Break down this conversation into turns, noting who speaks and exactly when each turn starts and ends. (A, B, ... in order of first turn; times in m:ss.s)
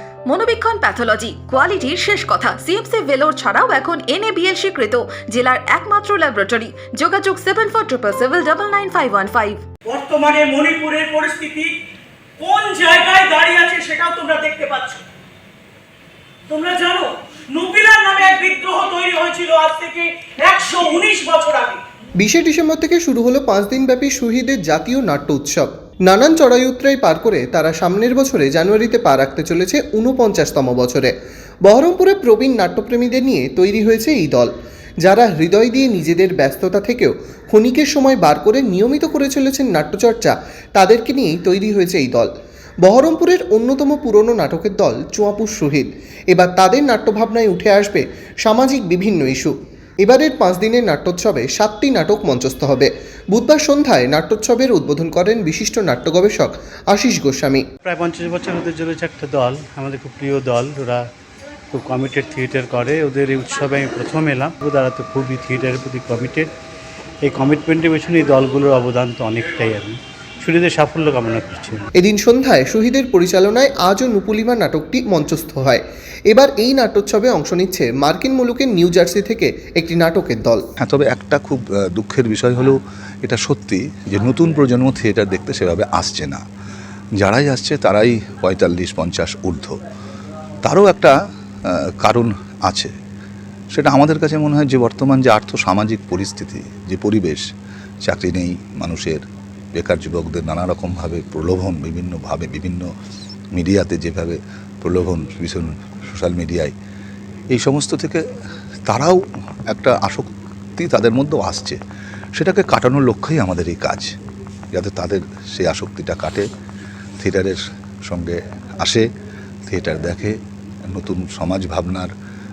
0:00.3-0:09.6 A
0:09.8-0:11.7 B
0:12.4-0:15.0 B
0:16.5-0:21.8 B
0:22.2-0:31.1 C
0:31.6-0:34.5 C
0:35.0-0:42.3 C
0:42.8-0:57.6 C
0:57.8-1:01.0 D
1:01.7-1:06.5 D
1:07.2-1:11.8 D
1:12.0-1:20.7 C
1:20.8-1:26.4 E
1:27.2-1:29.7 E
1:30.6-1:31.1 E
1:31.6-1:32.9 E
1:33.7-1:37.4 E
1:38.0-1:42.9 E
1:43.5-1:46.7 E
1:47.5-1:48.2 E
1:48.8-1:51.8 E
1:52.3-1:54.1 E
1:54.7-1:56.4 E
1:57.2-1:59.1 E
1:59.7-2:00.4 E
2:00.9-2:02.1 E